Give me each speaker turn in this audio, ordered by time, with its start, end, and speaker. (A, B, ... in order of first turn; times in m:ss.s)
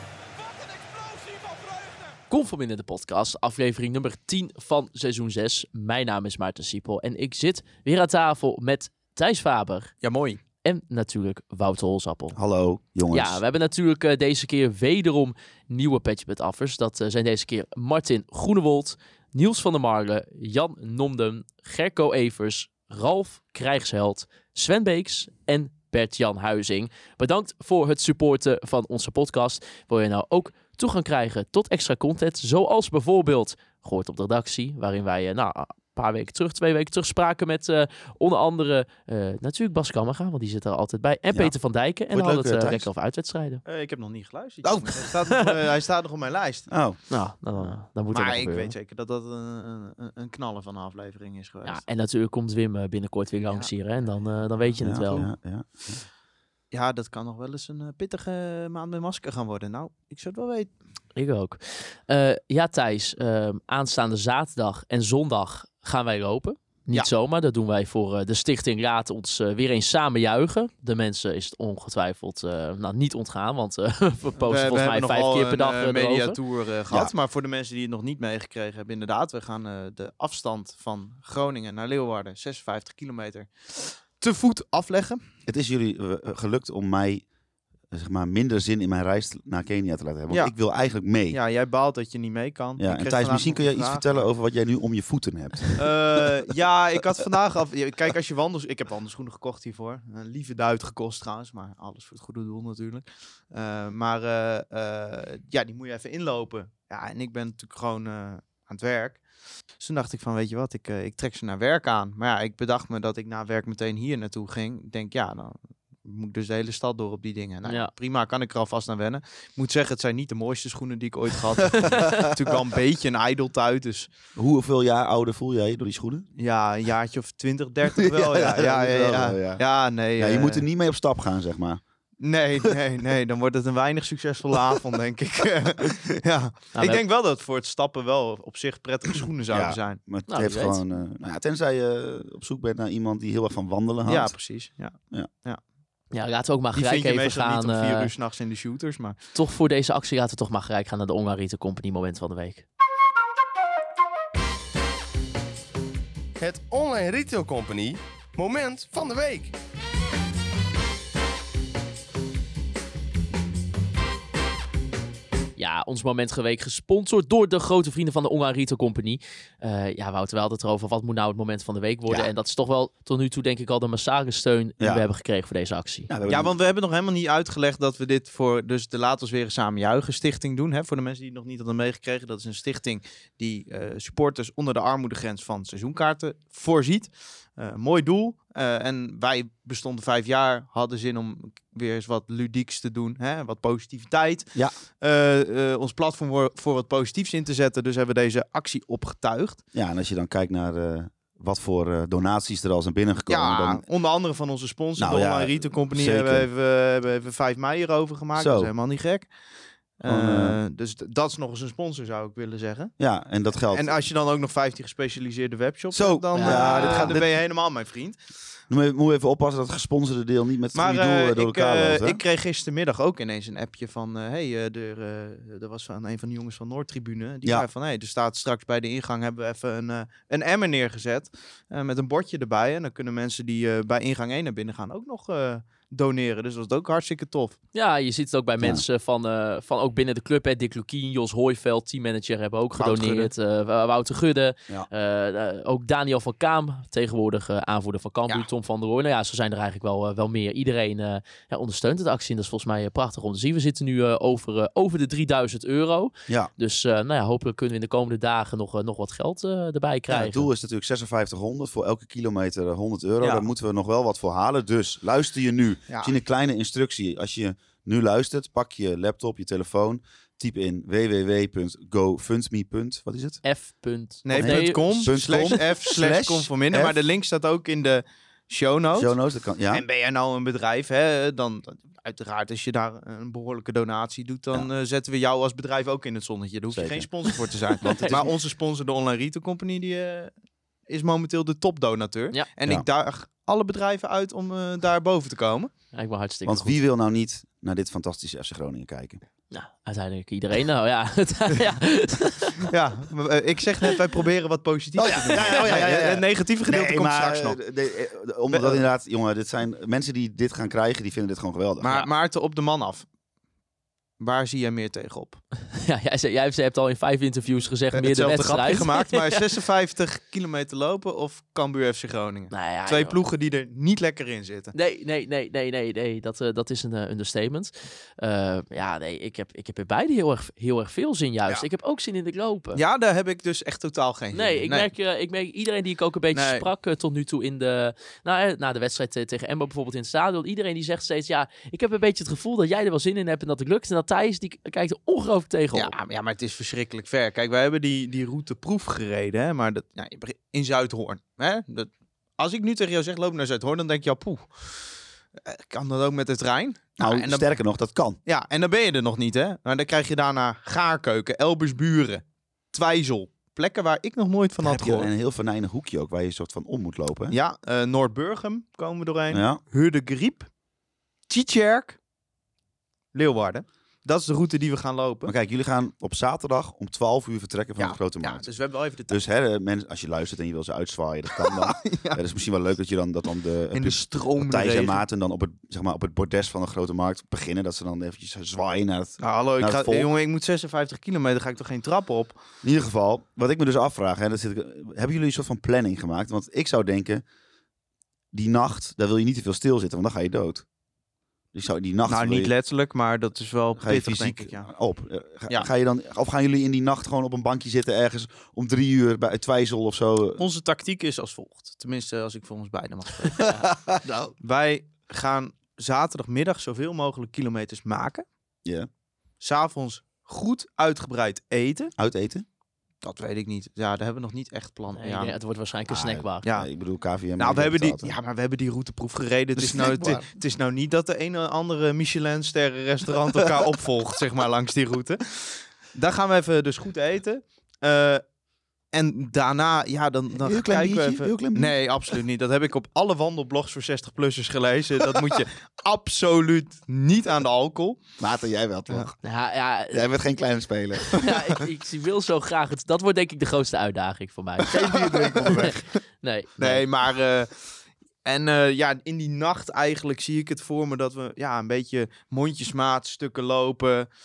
0:02.3-0:10.0 A
0:10.0-0:10.4 B
0:10.6-0:12.4 A
0:12.3-0:13.4 C
0:13.1-0:43.6 A
0:42.1-0:42.9 C
0:43.6-0:47.0 B
0:44.6-0:45.0 C
0:46.7-0:47.0 C
0:47.1-0:48.7 A
0:48.1-0:51.8 B
0:51.6-0:55.3 A
0:54.8-0:56.0 C
0:56.7-1:00.7 B
1:01.2-1:16.4 A
1:14.4-1:25.2 B
1:25.5-1:27.3 C
1:27.9-1:31.4 C
1:30.3-1:34.3 B
1:32.8-1:35.9 C
1:35.8-1:49.2 B
1:49.8-2:04.1 B
1:57.6-1:57.9 A
2:04.4-2:06.3 C
2:06.4-2:10.7 B
2:08.0-2:11.8 C
2:12.2-2:20.0 B
2:16.8-2:17.0 A
2:19.5-2:24.4 C
2:20.3-2:20.8 A
2:24.1-2:25.6 B
2:26.1-2:28.1 A
2:26.7-2:29.2 B
2:29.4-2:32.7 A
2:36.4-2:39.6 D
2:45.6-2:56.1 A
2:56.1-2:56.6 C
2:56.3-3:19.6 B
3:19.7-3:23.8 C
3:23.3-3:29.4 B
3:25.0-3:26.5 C
3:28.4-3:28.7 C
3:30.0-3:33.0 B
3:30.0-3:30.6 C
3:33.0-3:34.0 C
3:33.7-3:38.2 B
3:35.9-3:37.3 C
3:36.3-3:37.2 A
3:38.7-3:42.2 C
3:40.8-3:57.6 B
3:57.7-4:20.5 A
4:02.8-4:03.3 B
4:20.1-4:33.4 C
4:23.2-4:23.5 B
4:25.9-4:26.2 B
4:33.4-4:35.7 A
4:34.2-4:39.1 B
4:34.3-4:37.0 C
4:39.0-4:39.8 C
4:39.7-4:50.3 B
4:46.7-4:47.1 C
4:47.8-4:48.3 C
4:50.9-4:55.7 B
4:55.9-4:56.7 A
4:56.5-4:59.2 C
4:59.5-5:02.6 A
5:02.6-5:07.6 B
5:05.0-5:12.1 C
5:08.5-5:08.8 B
5:11.8-5:13.1 B
5:14.2-5:15.4 B
5:15.8-5:19.4 A
5:17.9-5:24.7 B
5:22.5-5:23.2 A
5:24.7-5:32.8 A
5:32.7-5:34.9 B
5:34.3-5:45.9 A
5:36.3-5:36.7 B
5:45.7-5:57.5 B
5:57.0-5:58.2 C
5:58.2-6:05.1 B
6:04.6-6:07.4 C
6:07.3-6:10.5 B
6:09.3-6:09.6 C
6:11.3-6:12.0 B
6:13.1-6:15.3 B
6:15.3-6:18.5 C
6:17.8-6:19.2 B
6:19.1-6:30.1 C
6:21.4-6:22.2 B
6:23.7-6:25.0 B
6:29.2-6:32.4 B
6:32.6-6:37.2 C
6:38.3-6:40.7 C
6:41.5-6:42.5 C
6:42.1-6:44.7 B
6:43.8-6:50.4 C
6:50.4-6:53.6 B
6:53.5-6:54.3 C
6:54.4-6:58.2 B
6:59.4-7:01.9 B
7:02.0-7:02.4 C
7:03.0-7:05.3 B
7:05.0-7:06.4 A
7:05.9-7:08.2 C
7:06.4-7:06.7 B
7:07.4-7:18.2 B
7:09.6-7:10.3 C
7:18.9-7:28.0 B
7:20.4-7:21.8 C
7:28.2-7:29.2 C
7:29.2-7:30.0 A
7:29.9-7:31.4 C
7:31.2-7:35.7 A
7:34.7-7:35.8 C
7:34.9-7:35.8 B
7:36.2-7:36.8 A
7:36.6-7:44.1 B